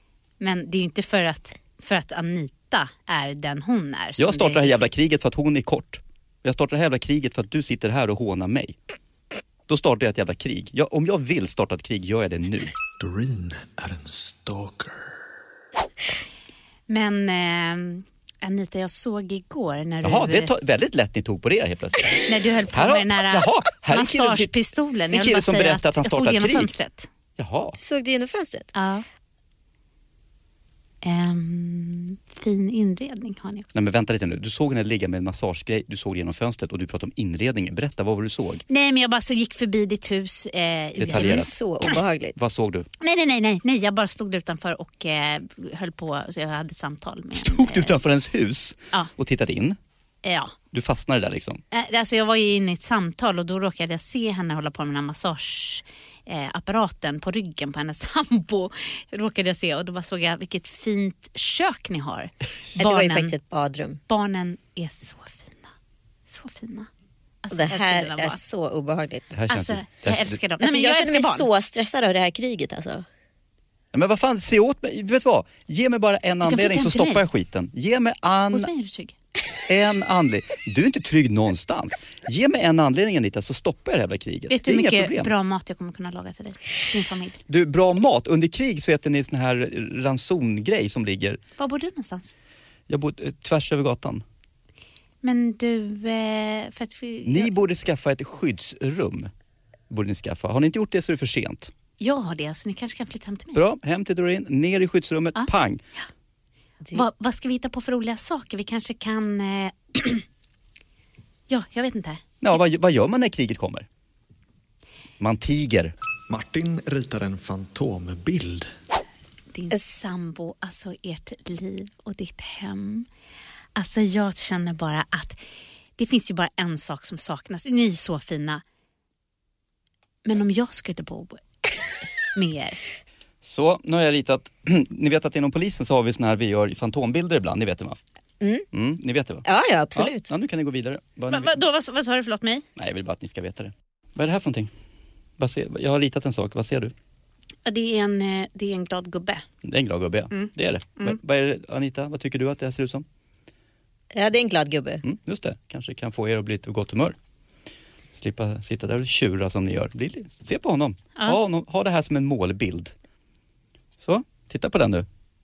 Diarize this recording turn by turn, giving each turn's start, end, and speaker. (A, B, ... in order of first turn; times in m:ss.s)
0:00.4-0:04.9 A
0:04.2-0:08.8 B
0:09.7-0:12.7 B
0:13.0-0:15.1 C
0:16.9-0:20.5 A
0:20.0-0:24.6 B
0:22.2-0:27.1 A
0:25.1-0:26.7 B
0:27.4-0:27.8 B
0:27.8-0:28.7 D
0:28.8-0:29.0 A
0:31.0-0:33.8 A
0:33.8-0:38.6 B
0:38.7-0:41.5 A
0:41.0-0:41.6 B
0:41.0-0:42.4 D
0:42.4-0:42.9 B
0:43.0-0:48.0 A
0:47.4-0:49.8 B
0:50.2-0:50.6 A
0:50.7-0:51.6 B
0:51.7-1:03.3 A
1:02.8-1:04.0 D
1:04.1-1:05.7 A
1:06.3-1:06.9 A
1:07.4-1:08.4 A
1:07.5-1:09.4 D
1:09.4-1:10.4 B
1:09.5-1:11.5 A
1:10.6-1:13.0 D
1:13.9-1:18.7 B
1:16.4-1:17.2 A
1:18.5-1:19.1 A
1:19.7-1:25.3 B
1:24.5-1:27.4 A
1:27.5-1:31.4 B
1:31.6-1:32.3 A
1:32.9-1:34.2 B
1:35.2-1:37.6 A
1:37.2-1:39.3 B
1:39.9-1:41.7 B
1:42.0-1:43.6 A
1:43.5-1:45.8 B
1:46.9-1:50.2 A
1:51.5-1:52.2 A
1:52.4-1:53.9 B
1:55.2-1:55.9 B
1:56.3-1:58.7 C
1:59.5-2:03.1 A
2:03.8-2:05.4 A
2:06.0-2:08.6 A
2:10.2-2:11.4 A
2:12.3-2:12.8 A
2:13.4-2:18.0 B
2:18.4-2:18.7 D
2:18.7-2:21.6 B
2:19.4-2:20.3 D
2:21.3-2:22.6 A
2:22.8-2:24.7 B
2:25.4-2:26.9 B
2:27.7-2:29.4 A
2:29.6-2:33.0 B
2:30.3-2:31.2 A
2:34.1-2:35.0 D
2:35.0-2:37.2 B
2:38.2-2:42.9 B
2:44.0-2:45.1 B